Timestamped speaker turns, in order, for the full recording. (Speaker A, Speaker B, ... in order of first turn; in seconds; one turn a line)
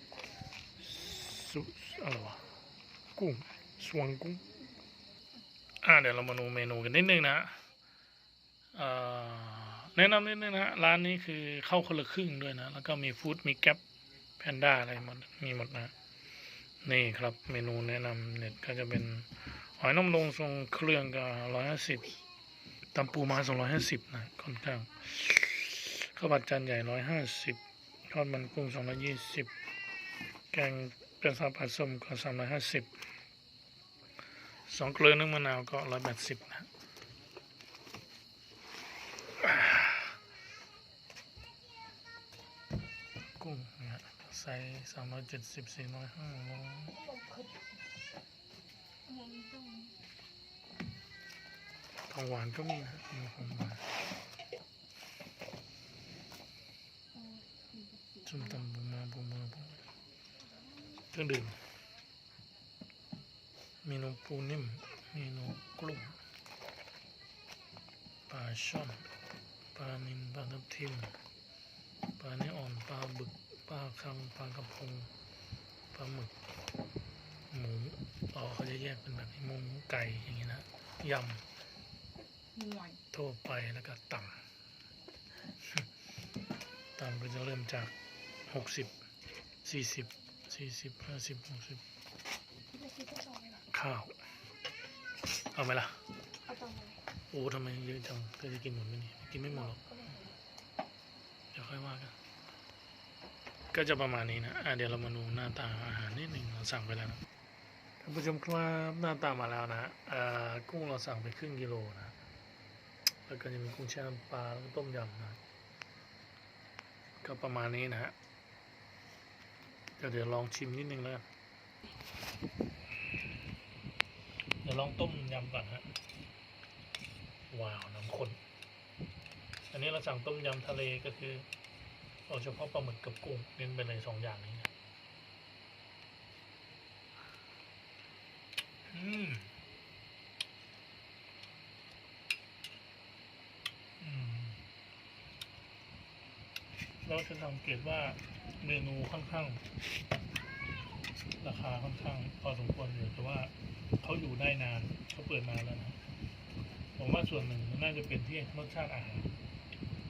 Speaker A: 0.8-2.4
Speaker A: 3.1-4.4
Speaker A: 5.8-7.6
Speaker A: 8.7-13.8
Speaker A: 14.4-15.9
Speaker A: 16.8-22.2
Speaker A: 22.9-29.5
Speaker A: 30.5-32.9
Speaker A: 34.6-36.7
Speaker A: 39.4-40.1
Speaker A: 43.4-47.0
Speaker B: 47.0-47.6
Speaker B: 49.1-49.9
Speaker A: 52.1-53.8
Speaker B: 57.1-58.4
Speaker A: 58.2-59.9
Speaker A: 61.1-61.6
Speaker A: 63.8-66.2
Speaker A: 68.3-69.1
Speaker A: 69.7-71.1
Speaker A: 72.2-75.1
Speaker A: 75.9-76.3
Speaker A: 77.5-81.4
Speaker B: 82.5-83.0
Speaker A: 83.1-84.4
Speaker A: 87.0-87.9
Speaker A: 88.5-88.9
Speaker A: 89.6-91.8
Speaker B: 92.7-93.6
Speaker A: 93.7-94.2
Speaker A: 95.4-96.0
Speaker B: 96.4-97.0
Speaker A: 97.3-99.8
Speaker B: 99.7-100.2
Speaker A: 101.5-102.1
Speaker A: 103.7-107.2
Speaker A: 108.0-112.1
Speaker A: 113.3-115.4
Speaker A: 117.2-118.1
Speaker A: 120.0-121.2
Speaker A: 124.6-125.9
Speaker A: 127.5-128.4
Speaker A: 129.7-131.5
Speaker A: 132.3-134.7
Speaker A: 138.9-139.5
Speaker A: 144.0-144.6
Speaker A: 147.0-149.6
Speaker A: 151.4-156.0
Speaker A: 157.0-159.3